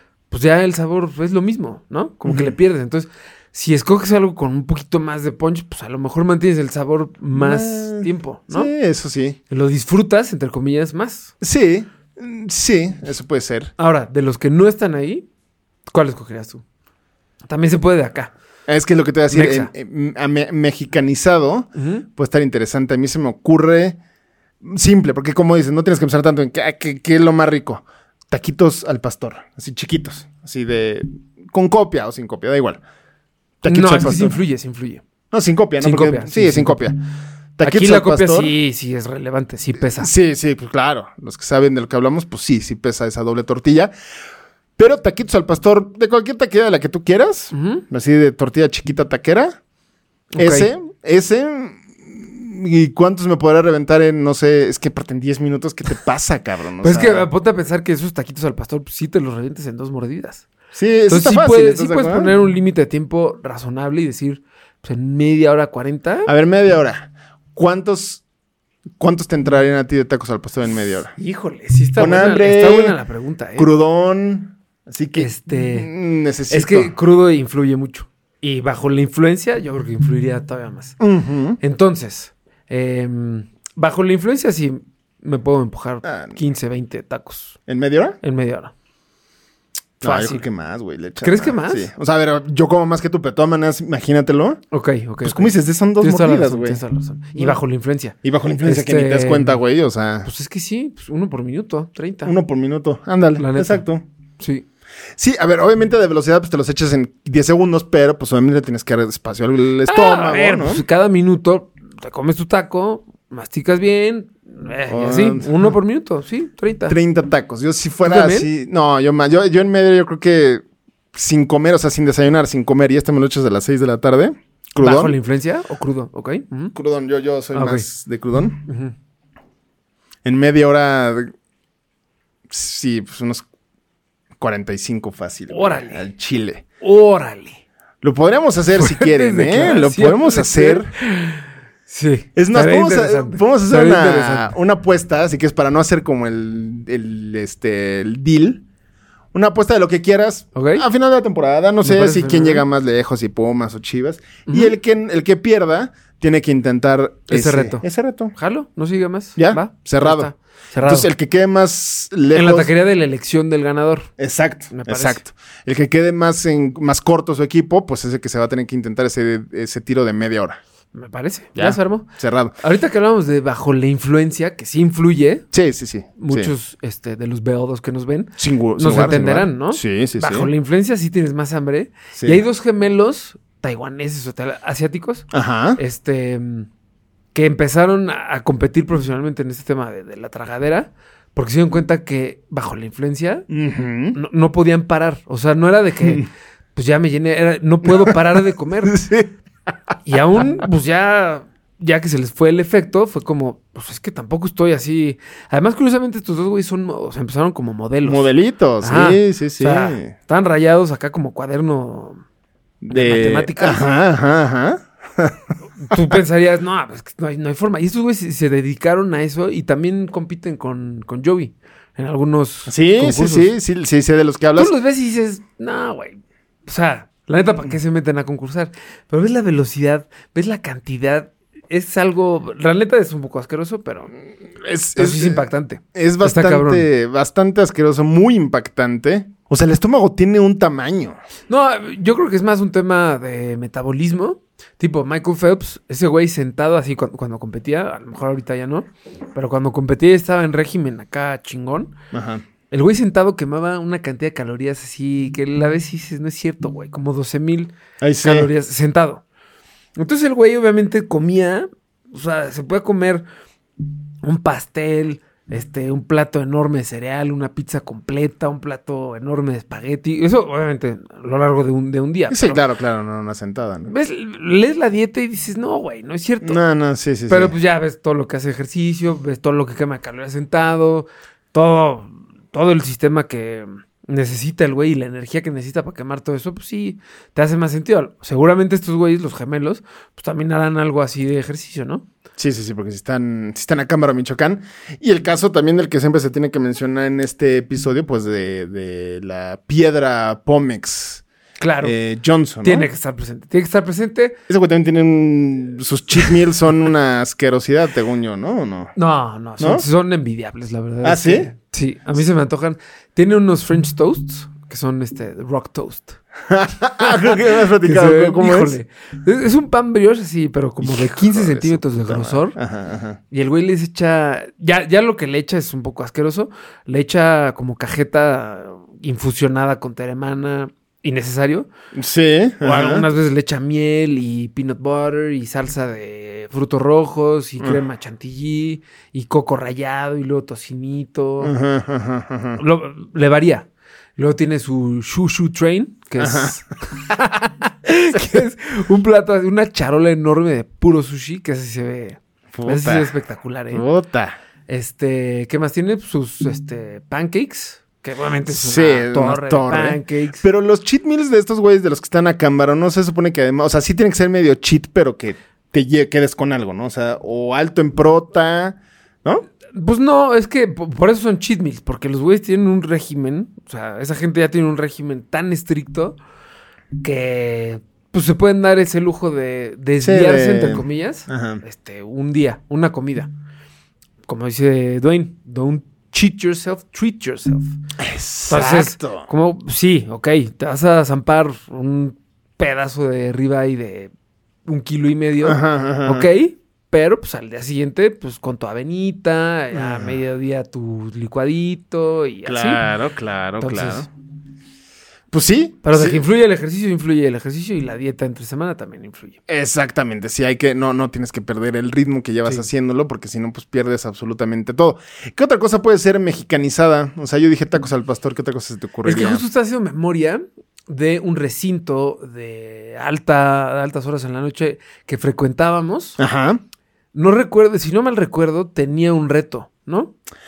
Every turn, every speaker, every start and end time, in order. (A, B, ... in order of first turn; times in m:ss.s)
0:00.3-0:08.7 A
0:02.2-0:02.5 B
0:07.3-0:09.4 B
0:09.5-0:11.3 A
0:11.4-0:13.7 B
0:13.8-0:15.3 A
0:15.9-0:16.6 A
0:17.4-0:18.3 A
0:18.7-0:24.0 B
0:19.3-0:19.7 A
0:21.8-0:22.1 A
0:24.6-0:32.8 B
0:33.6-0:34.4 B
0:33.6-0:35.0 A
0:35.3-0:37.0 B
0:35.8-0:36.9 A
0:37.6-0:38.5 B
0:37.6-0:40.1 A
0:39.8-0:43.9 B
0:44.8-0:49.6 B
0:47.5-0:47.8 A
0:50.3-0:50.7 A
0:50.4-0:57.3 B
0:56.8-1:00.5 A
1:00.7-1:02.4 B
1:01.1-1:06.3 A
1:06.3-1:08.2 B
1:09.0-1:11.1 B
1:11.2-1:13.7 A
1:12.0-1:13.0 B
1:13.6-1:16.9 B
1:15.2-1:15.9 A
1:16.5-1:21.0 A
1:21.0-1:21.6 B
1:21.6-1:27.6 A
1:26.0-1:26.4 B
1:27.7-1:28.2 B
1:28.2-1:28.7 A
1:30.0-1:34.6 B
1:30.0-1:30.4 A
1:31.2-1:31.9 A
1:34.7-1:39.6 A
1:35.2-1:36.8 B
1:38.2-1:40.3 B
1:40.2-1:42.4 A
1:42.2-1:44.0 B
1:43.4-1:43.8 A
1:44.4-1:44.6 A
1:45.2-1:50.8 B
1:49.9-1:57.0 A
1:54.9-1:55.7 B
1:56.9-2:00.6 B
1:58.0-1:58.5 A
2:01.1-2:05.2 B
2:04.8-2:06.7 A
2:06.7-2:08.6 B
2:07.5-2:07.9 A
2:08.6-2:08.9 A
2:10.2-2:11.3 B
2:12.5-2:13.4 B
2:14.4-2:16.6 B
2:15.5-2:16.0 A
2:16.8-2:17.6 A
2:18.0-2:20.9 B
2:18.7-2:24.6 A
2:22.4-2:28.6 B
2:29.3-2:38.3 B
2:30.6-2:30.9 A
2:31.8-2:32.6 A
2:34.5-2:34.7 A
2:37.3-2:41.1 A
2:39.4-2:40.3 B
2:40.8-2:42.7 B
2:42.3-2:44.1 A
2:44.2-2:50.6 B
2:44.7-2:45.2 A
2:50.9-2:52.1 A
2:51.6-2:52.6 B
2:52.6-2:55.5 A
2:55.5-2:56.5 B
2:56.2-3:06.7 A
2:58.4-3:00.5 B
3:02.2-3:02.4 B
3:05.3-3:05.8 B
3:07.3-3:13.5 A
3:13.5-3:14.2 B
3:14.2-3:19.0 A
3:17.9-3:18.2 B
3:18.8-3:19.3 B
3:20.1-3:32.2 A
3:28.0-3:30.1 B
3:32.8-3:35.4 B
3:32.9-3:33.9 A
3:35.8-3:43.5 A
3:42.7-3:44.7 B
3:44.6-3:54.1 A
3:54.6-4:01.2 B
3:55.0-3:56.9 A
4:01.5-4:12.0 A
4:12.1-4:12.4 B
4:12.7-4:19.2 A
4:18.0-4:18.5 B
4:20.0-4:23.2 A
4:24.2-4:32.6 A
4:32.3-4:33.9 B
4:33.9-4:36.6 A
4:36.4-4:37.6 B
4:37.3-4:52.0 A
4:52.4-5:01.2 B
5:01.6-5:02.0 A
5:01.8-5:02.9 B
5:02.6-5:04.4 A
5:04.5-5:08.9 B
5:09.0-5:16.2 A
5:09.6-5:09.8 B
5:11.0-5:11.5 B
5:16.5-5:18.8 B
5:17.0-5:22.6 A
5:20.8-5:23.2 B
5:23.3-5:31.7 A
5:31.9-5:33.1 B
5:32.6-5:41.5 A
5:41.4-5:42.6 B
5:42.6-5:53.8 A
5:46.2-5:46.6 B
5:52.5-5:53.2 B
5:53.7-5:54.4 B
5:54.7-6:00.4 A
5:58.5-6:09.5 B
6:09.7-6:16.2 A
6:17.0-6:23.3 A
6:20.0-6:21.6 B
6:24.3-6:27.8 A
6:28.0-6:29.3 B
6:28.5-6:34.1 A
6:34.6-6:42.8 A
6:35.4-6:36.3 B
6:39.7-6:40.2 B
6:42.4-6:44.1 B
6:43.6-6:44.1 A
6:45.3-6:46.2 B
6:45.8-6:49.4 A
6:49.5-6:59.4 B
6:59.0-7:06.2 A
7:06.2-7:06.6 B
7:07.1-7:10.1 A